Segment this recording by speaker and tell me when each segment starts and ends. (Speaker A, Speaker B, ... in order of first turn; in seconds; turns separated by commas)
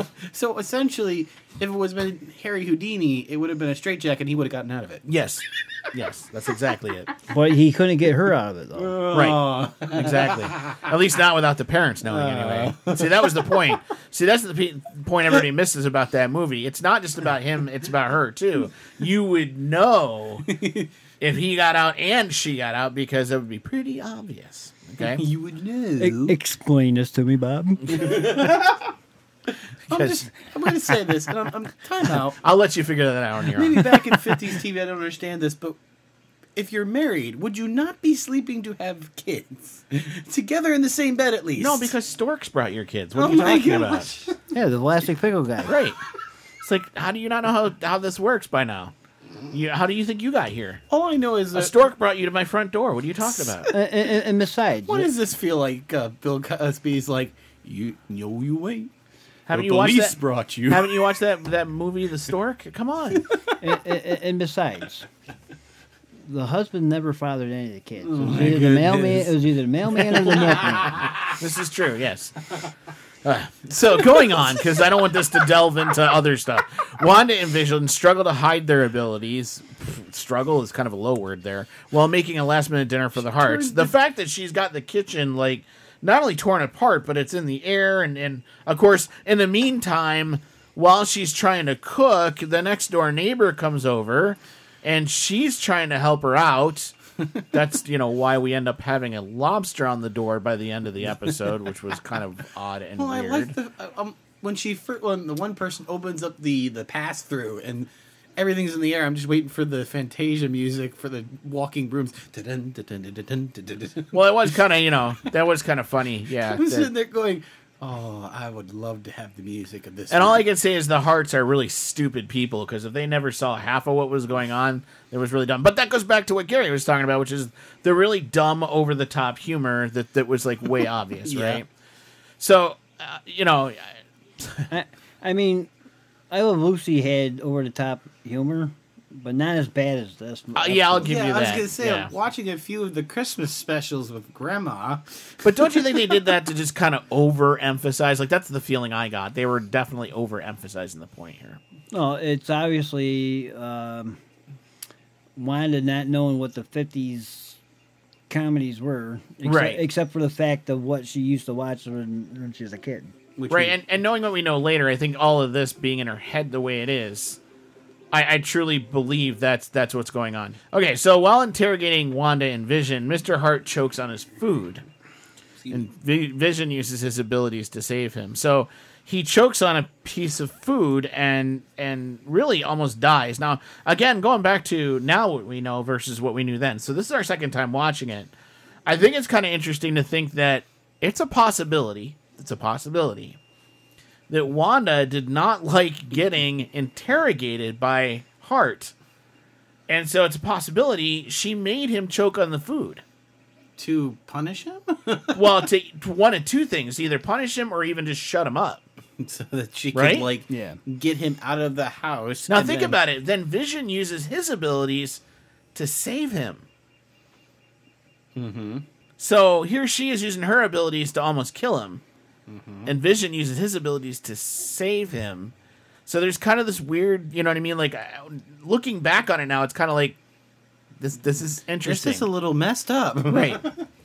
Speaker A: 0.2-5.0, Speaker B: 5.0-7.1, Speaker C: 7.3-9.1, Speaker A: 8.8-10.8, Speaker B: 9.1-20.6, Speaker A: 12.1-13.7, Speaker A: 20.5-20.9, Speaker B: 21.2-25.2, Speaker A: 25.0-26.3, Speaker C: 26.0-28.3, Speaker A: 28.0-28.8, Speaker A: 29.9-32.4, Speaker B: 29.9-30.3, Speaker B: 32.4-34.0, Speaker A: 33.5-35.8, Speaker A: 36.5-41.9, Speaker B: 41.5-44.1, Speaker A: 43.1-44.4, Speaker C: 44.5-45.7, Speaker B: 45.6-46.0, Speaker B: 46.6-48.9, Speaker B: 49.5-50.8, Speaker A: 50.9-51.8, Speaker B: 51.5-53.7, Speaker A: 53.3-53.7, Speaker C: 53.7-55.1, Speaker A: 54.9-58.9, Speaker B: 59.5-63.2, Speaker A: 59.5-61.1, Speaker A: 63.1-63.6, Speaker C: 63.6-65.0, Speaker C: 66.2-71.0, Speaker A: 68.0-69.3, Speaker A: 70.0-71.2, Speaker B: 70.8-72.4, Speaker B: 73.2-96.9, Speaker A: 73.8-74.6, Speaker A: 83.2-83.9, Speaker B: 97.5-103.6, Speaker A: 103.0-114.3, Speaker B: 114.1-116.9, Speaker A: 116.4-120.4, Speaker B: 120.1-131.7, Speaker A: 131.2-131.6, Speaker B: 132.4-134.7, Speaker C: 134.7-135.7, Speaker C: 136.3-141.1, Speaker B: 140.5-142.1, Speaker A: 141.0-146.3, Speaker B: 145.4-151.6, Speaker C: 151.9-154.2, Speaker C: 155.3-157.6, Speaker C: 158.3-163.1, Speaker B: 159.4-159.8, Speaker A: 163.4-163.8, Speaker B: 163.5-167.4, Speaker B: 168.1-174.8, Speaker B: 175.7-188.3, Speaker B: 188.8-193.4, Speaker B: 194.3-198.9, Speaker B: 199.9-203.0, Speaker A: 203.8-205.7, Speaker B: 205.3-208.8, Speaker A: 209.2-213.0, Speaker B: 209.9-210.3, Speaker C: 210.5-210.8, Speaker B: 212.5-215.2, Speaker B: 215.7-216.7, Speaker A: 218.3-218.8, Speaker B: 219.2-222.0, Speaker A: 222.5-222.9, Speaker B: 222.8-225.5, Speaker B: 226.1-230.2, Speaker B: 231.0-232.3, Speaker A: 231.8-233.8, Speaker B: 233.3-233.7